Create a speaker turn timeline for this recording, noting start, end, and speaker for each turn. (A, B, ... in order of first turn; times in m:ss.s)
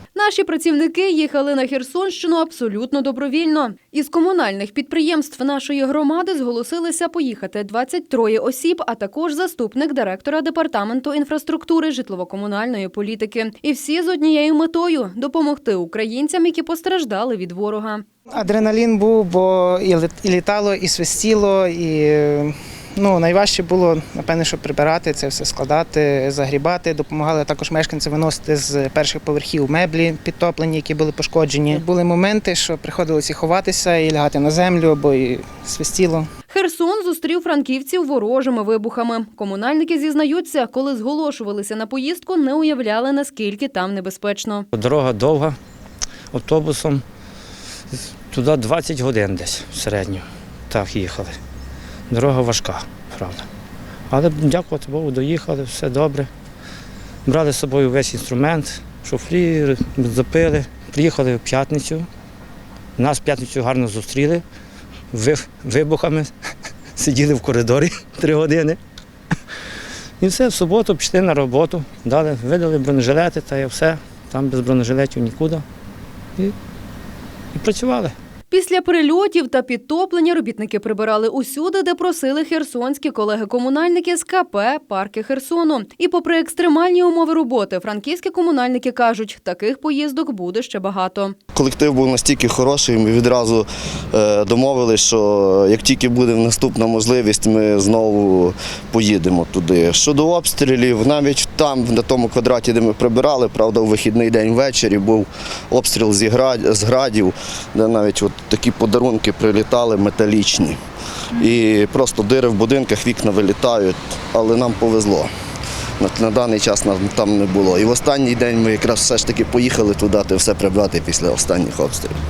0:00.1-0:18.0 A
0:18.3-0:36.3 B
0:36.5-0:44.7 A
0:44.7-0:45.6 C
0:46.3-0:47.0 C
0:48.3-0:51.3 C
0:52.1-0:53.4 C
0:54.1-0:56.3 C
0:57.2-1:02.0 C
1:03.0-1:04.4 C
1:05.1-1:06.3 C
1:07.0-1:08.8 C
1:10.2-1:15.6 C
1:17.5-1:18.1 C
1:18.5-1:31.4 A
1:31.5-1:50.8 D
1:51.4-1:55.3 D
1:56.0-2:02.2 D